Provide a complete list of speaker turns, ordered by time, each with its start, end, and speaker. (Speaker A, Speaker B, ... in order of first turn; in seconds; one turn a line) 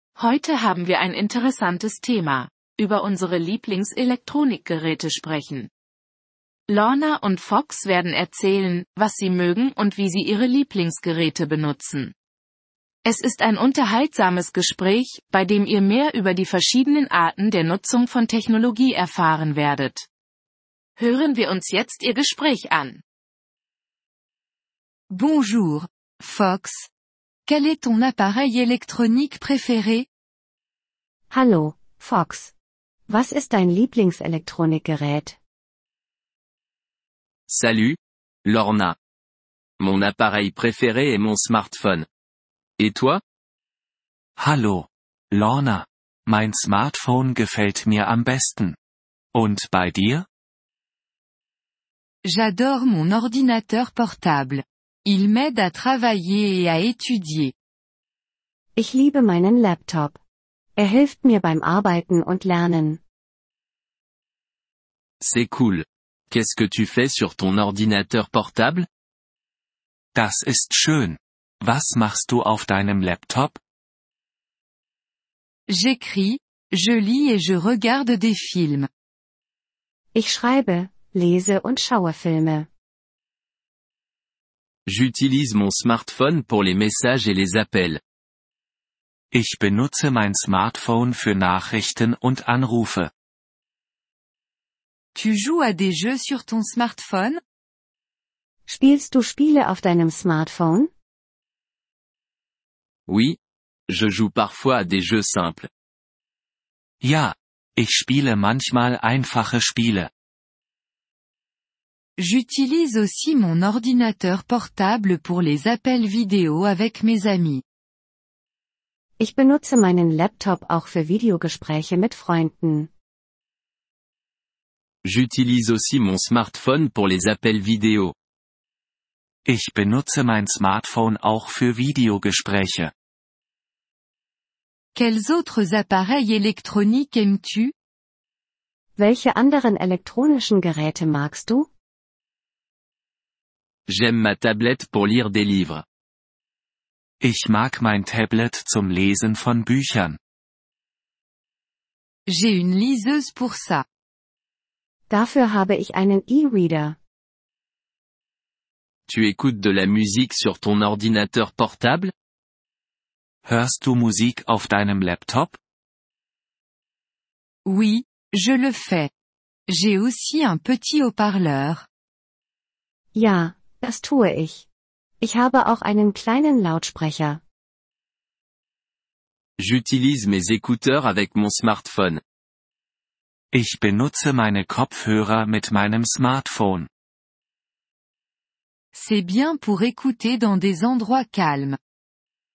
Speaker A: 0.2-5.7
Speaker A: 6.7-12.1
Speaker A: 13.1-20.1
Speaker A: 21.0-23.0
Speaker B: 25.1-26.9
Speaker B: 27.5-30.1
Speaker C: 31.3-32.5
Speaker C: 33.1-35.4
Speaker D: 37.5-39.0
Speaker D: 39.8-42.1
Speaker D: 42.8-43.2
Speaker E: 44.4-48.8
Speaker E: 49.3-50.3
Speaker B: 52.2-57.5
Speaker C: 58.8-60.2
Speaker C: 60.8-63.0
Speaker D: 65.2-68.9
Speaker E: 70.1-73.6
Speaker B: 75.7-78.9
Speaker C: 80.1-82.7
Speaker D: 84.9-88.0
Speaker E: 89.3-93.1
Speaker B: 95.2-97.4
Speaker C: 98.7-100.9
Speaker D: 103.1-103.4
Speaker D: 103.9-105.7
Speaker E: 107.0-110.1
Speaker B: 112.2-117.6
Speaker C: 119.2-122.9
Speaker D: 125.0-128.2
Speaker E: 129.5-132.9
Speaker B: 135.0-137.7
Speaker C: 139.0-141.7
Speaker D: 143.9-145.8
Speaker E: 147.2-150.2
Speaker B: 152.3-153.8
Speaker C: 155.1-157.0
Speaker D: 159.1-162.1
Speaker E: 163.4-165.6
Speaker B: 167.7-169.1
Speaker B: 169.7-171.9
Speaker C: 173.1-174.7
Speaker C: 175.2-177.4
Speaker D: 179.6-182.2
Speaker E: 183.5-186.9
Speaker B: 188.9-191.8